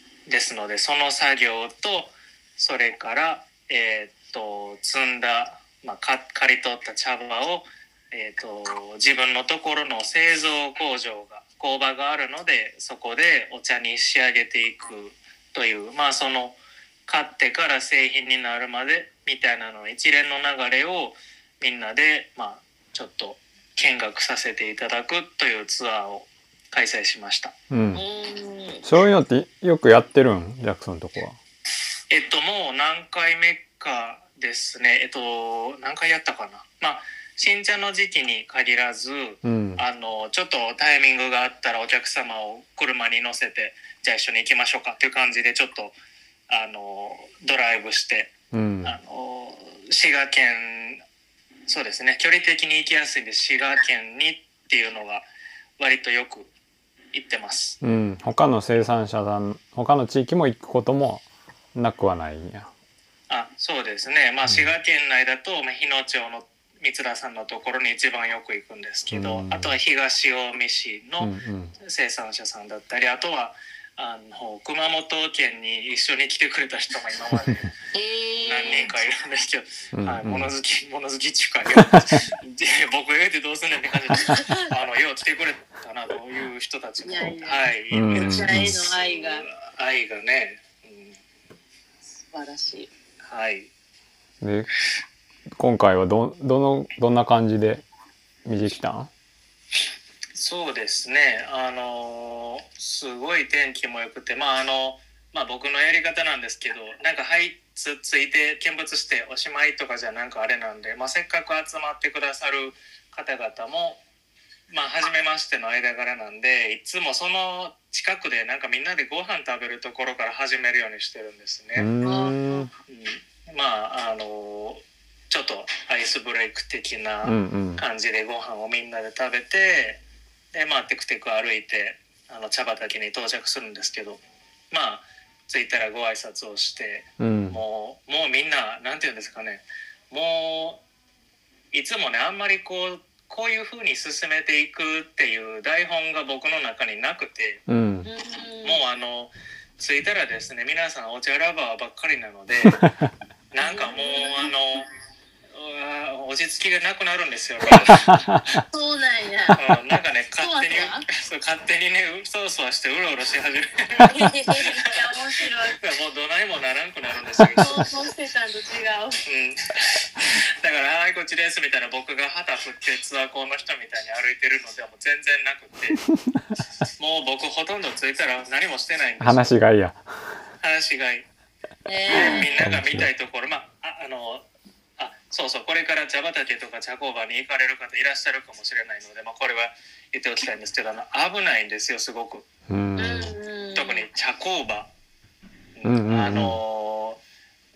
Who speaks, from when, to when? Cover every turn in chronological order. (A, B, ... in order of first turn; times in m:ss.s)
0:00.3-0:27.5 A
0:27.7-0:28.0 B
0:27.9-0:28.8 C
0:28.8-0:31.4 B
0:32.1-0:46.0 A
0:39.4-0:39.8 B
0:46.5-0:51.0 A
0:48.5-0:49.0 B
0:51.7-0:55.3 A
0:55.8-0:56.5 A
0:57.1-0:57.8 A
0:57.8-1:02.7 B
1:03.3-1:17.7 A
1:09.1-1:09.8 B
1:11.2-1:11.7 B
1:17.4-1:17.6 B
1:17.9-1:18.9 C
1:18.4-1:31.2 A
1:19.9-1:20.5 B
1:21.7-1:22.2 B
1:24.2-1:24.7 C
1:27.0-1:29.4 C
1:27.9-1:28.8 B
1:32.1-1:32.9 C
1:33.2-1:33.7 A
1:34.4-1:34.7 B
1:35.6-1:37.8 B
1:38.4-1:39.1 B
1:40.3-1:54.0 A
1:54.7-2:01.9 A
2:01.7-2:02.7 B
2:02.0-2:02.6 C
2:02.9-2:10.0 A
2:07.2-2:07.8 B
2:10.5-2:14.2 A
2:14.7-2:20.8 A
2:17.2-2:17.6 B
2:21.7-2:27.6 A
2:27.7-2:28.1 B
2:28.0-2:28.8 C
2:28.6-2:32.8 A
2:32.6-2:33.1 B
2:33.5-2:34.9 A
2:33.6-2:34.5 C
2:35.5-2:38.2 A
2:37.8-2:38.4 B
2:38.7-2:39.6 C
2:39.6-2:44.1 A
2:40.4-2:41.0 C
2:44.0-2:45.8 C
2:45.8-2:47.8 A
2:47.4-2:47.8 B
2:47.6-2:49.2 C
2:49.2-2:56.0 A
2:56.1-2:56.6 B
2:57.0-2:59.5 A
2:59.2-3:00.0 B
3:00.6-3:01.2 A
3:01.8-3:02.7 C
3:02.1-3:03.1 B
3:02.1-3:04.4 A
3:05.0-3:12.5 A
3:12.7-3:13.4 B
3:13.0-3:14.0 C
3:13.7-3:14.9 A
3:15.8-3:17.2 A
3:15.8-3:16.6 B